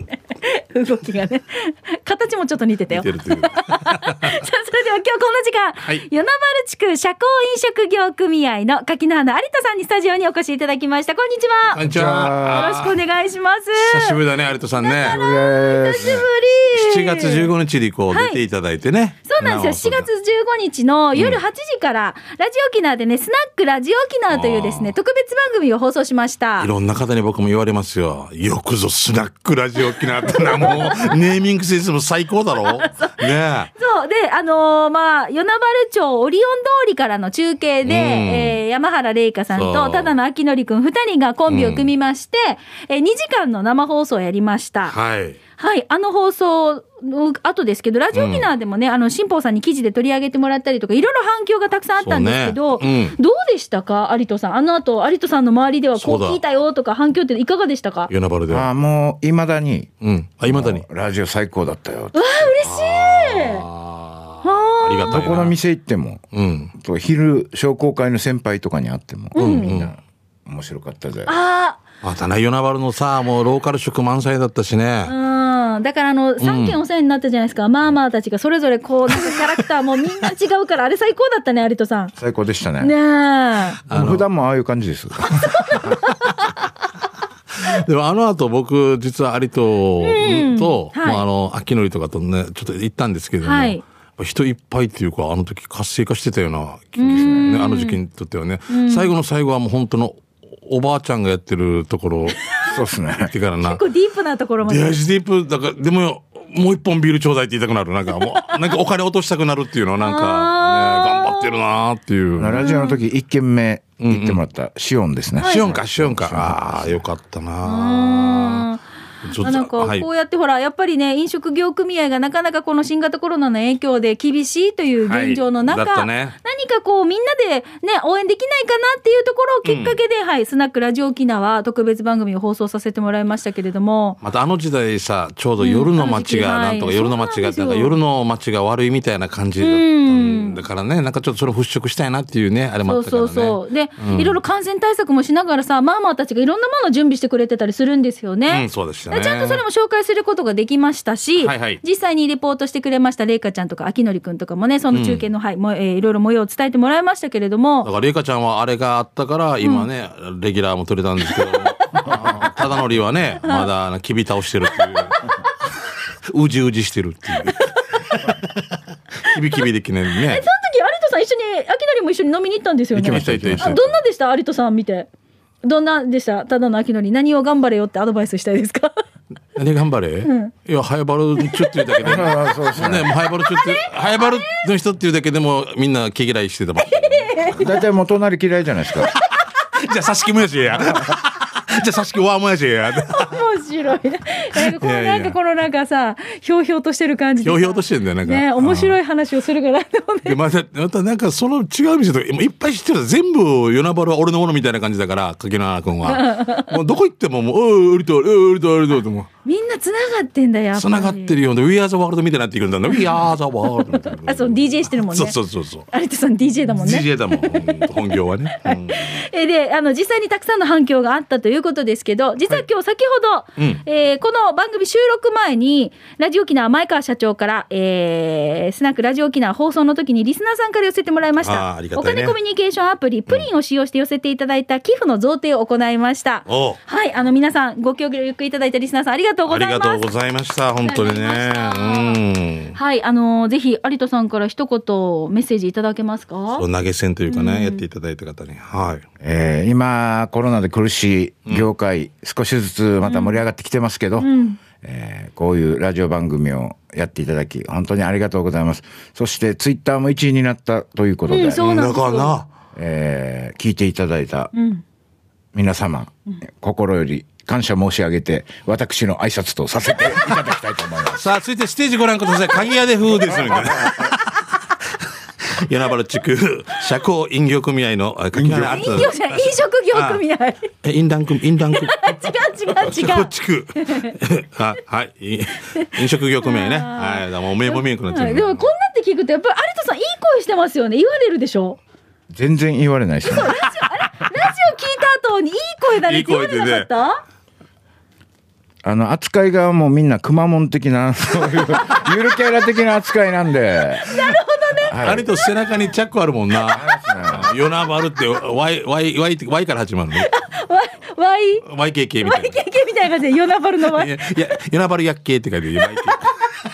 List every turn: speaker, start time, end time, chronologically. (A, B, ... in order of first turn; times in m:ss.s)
0:00.4-0:11.8 A
0:02.9-0:04.4 B
0:11.7-0:13.0 B
0:11.9-0:12.8 C
0:12.5-0:14.2 A
0:13.8-0:15.2 B
0:14.8-0:17.5 A
0:15.0-0:16.2 C
0:16.0-0:20.1 B
0:18.1-0:18.4 A
0:19.3-0:26.7 A
0:21.1-0:21.4 B
0:24.3-0:24.9 B
0:26.6-0:33.7 B
0:30.2-0:31.1 A
0:32.7-0:45.0 A
0:37.8-0:38.6 B
0:39.5-0:40.1 B
0:41.5-0:41.9 B
0:44.9-0:45.4 B
0:45.6-0:58.1 A
0:48.1-0:48.5 B
0:52.0-0:53.2 B
0:56.0-0:56.4 B
0:58.1-0:58.7 B
0:58.5-0:59.9 C
1:00.0-1:00.8 B
1:00.5-1:02.3 C
1:02.1-1:03.7 A
1:02.6-1:05.6 B
1:04.4-1:05.2 A
1:05.1-1:06.2 C
1:06.3-1:06.7 B
1:06.7-1:11.3 C
1:09.3-1:09.8 A
1:09.4-1:09.9 B
1:11.3-1:11.8 A
1:12.0-1:15.1 B
1:15.1-1:22.1 A
1:16.4-1:16.8 B
1:19.1-1:19.6 B
1:22.2-1:22.9 C
1:22.8-1:23.8 A
1:23.9-1:24.2 B
1:23.9-1:26.0 C
1:25.4-1:26.7 A
1:27.6-1:42.4 B
1:30.0-1:31.2 A
1:33.4-1:33.8 A
1:37.0-1:38.0 A
1:37.1-1:37.6 C
1:38.7-1:39.1 A
1:42.4-1:42.7 A
1:42.7-1:43.3 C
1:43.1-1:43.8 B
1:43.6-1:45.0 A
1:44.6-1:52.6 B
1:48.3-1:48.7 A
1:50.0-1:51.6 A
1:52.4-1:57.0 C
1:52.6-1:53.0 A
1:54.0-1:54.4 B
1:55.4-1:55.6 A
1:55.4-1:58.7 B
1:57.6-1:58.8 A
1:59.2-2:00.1 B
1:59.4-2:14.2 A
2:05.1-2:06.4 B
2:09.6-2:10.0 B
2:14.2-2:24.4 B
2:15.6-2:17.9 A
2:19.6-2:20.6 A
2:22.9-2:37.9 A
2:28.5-2:29.6 B
2:31.4-2:31.8 B
2:34.9-2:35.2 B
2:37.8-2:45.3 B
2:39.6-2:39.9 A
2:41.2-2:42.5 A
2:44.8-2:45.5 A
2:46.3-2:50.4 B
2:47.4-2:48.3 A
2:50.2-2:55.1 A
2:52.9-2:54.0 C
2:53.1-2:53.8 B
2:55.6-2:58.9 A
2:59.6-3:07.5 B
3:00.2-3:00.5 A
3:01.4-3:02.3 A
3:02.0-3:03.1 C
3:03.2-3:04.6 A
3:06.9-3:07.7 A
3:07.6-3:09.1 C
3:09.1-3:13.4 B
3:13.0-3:20.4 A
3:14.6-3:15.4 B
3:17.4-3:19.0 B
3:20.2-3:29.3 B
3:26.0-3:26.7 A
3:29.4-3:31.4 A
3:30.8-3:35.9 B
3:32.9-3:35.4 A
3:35.9-3:38.1 A
3:36.7-3:39.2 B
3:38.6-4:00.1 A
3:43.6-3:43.8 B
3:51.4-3:52.4 B
3:56.5-3:56.8 B
3:59.5-4:02.8 B
4:00.8-4:02.2 A
4:02.7-4:06.6 A
4:06.6-4:09.0 B
4:07.3-4:07.8 A
4:09.2-4:21.6 C
4:13.0-4:13.4 A
4:14.2-4:14.6 A
4:21.3-4:22.3 A
4:21.6-4:22.5 B
4:22.7-4:24.5 C
4:24.5-4:24.8 A
4:25.5-4:31.3 C
4:31.0-4:34.6 B
4:33.7-4:34.1 C
4:35.5-4:40.2 B
4:38.3-4:38.8 C
4:38.6-4:40.7 A
4:40.8-4:42.1 B
4:41.8-4:44.2 A
4:42.8-4:48.7 B
4:45.7-4:51.8 A
4:52.3-4:53.6 C
4:53.2-4:57.2 A
4:56.0-4:56.9 B
4:58.8-5:04.0 C
5:04.0-5:05.0 A
5:04.1-5:04.4 B
5:04.9-5:05.3 C
5:04.9-5:10.3 B
5:06.7-5:07.5 C
5:10.1-5:11.7 A
5:11.6-5:12.6 B
5:12.2-5:14.3 A
5:13.8-5:16.3 B
5:15.8-5:16.3 A